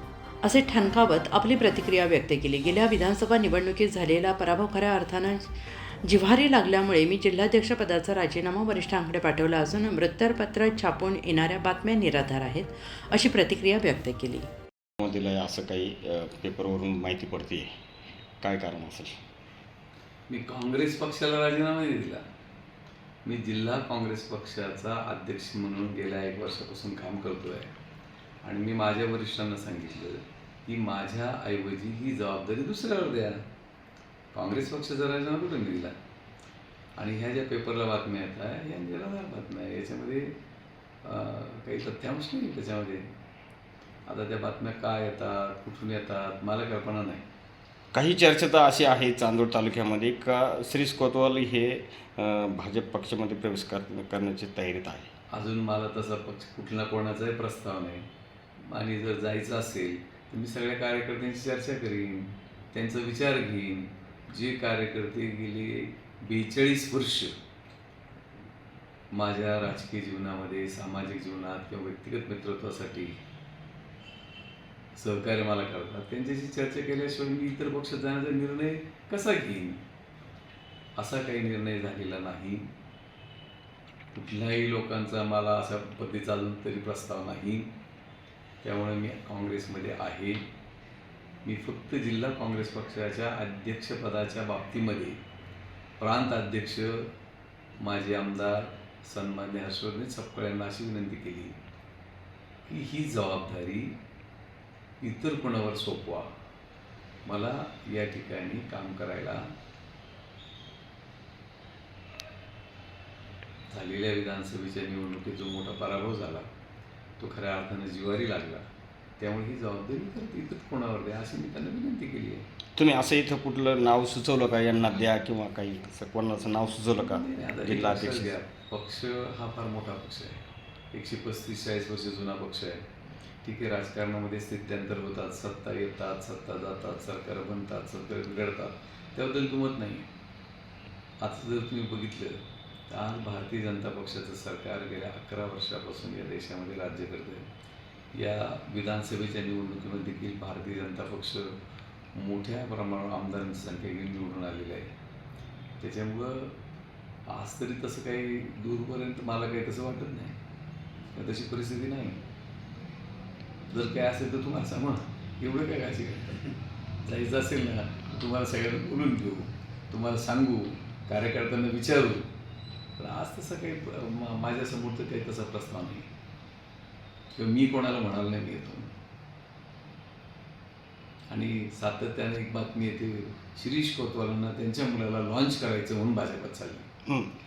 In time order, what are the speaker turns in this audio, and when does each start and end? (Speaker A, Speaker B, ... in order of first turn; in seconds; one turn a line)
Speaker A: 0.4-14.5
Speaker B: 15.0-17.7
Speaker B: 18.4-19.2
Speaker C: 20.3-22.2
Speaker C: 23.3-27.7
Speaker C: 28.4-33.5
Speaker C: 34.3-35.9
Speaker C: 37.0-40.3
Speaker C: 41.0-43.0
Speaker C: 44.1-47.2
Speaker B: 47.9-55.1
Speaker C: 55.3-58.0
Speaker C: 58.7-67.3
Speaker C: 69.1-73.2
Speaker C: 75.0-79.8
Speaker C: 81.0-82.7
Speaker C: 84.1-87.7
Speaker C: 88.6-90.4
Speaker C: 91.4-95.2
Speaker C: 96.0-97.1
Speaker C: 97.8-101.5
Speaker C: 102.7-104.0
Speaker C: 105.0-106.3
Speaker C: 107.2-109.4
Speaker C: 113.7-116.5
Speaker C: 117.2-118.7
Speaker C: 119.2-122.4
Speaker B: 122.8-128.3
Speaker C: 126.9-130.4
Speaker C: 130.9-132.8
Speaker C: 133.4-140.1
Speaker C: 141.2-147.5
Speaker C: 148.1-151.5
Speaker C: 152.1-154.9
Speaker C: 155.8-156.6
Speaker C: 157.3-160.3
Speaker C: 161.1-162.2
Speaker C: 163.7-172.3
Speaker C: 173.0-176.1
Speaker C: 177.3-178.9
Speaker C: 181.3-186.9
Speaker B: 187.1-187.3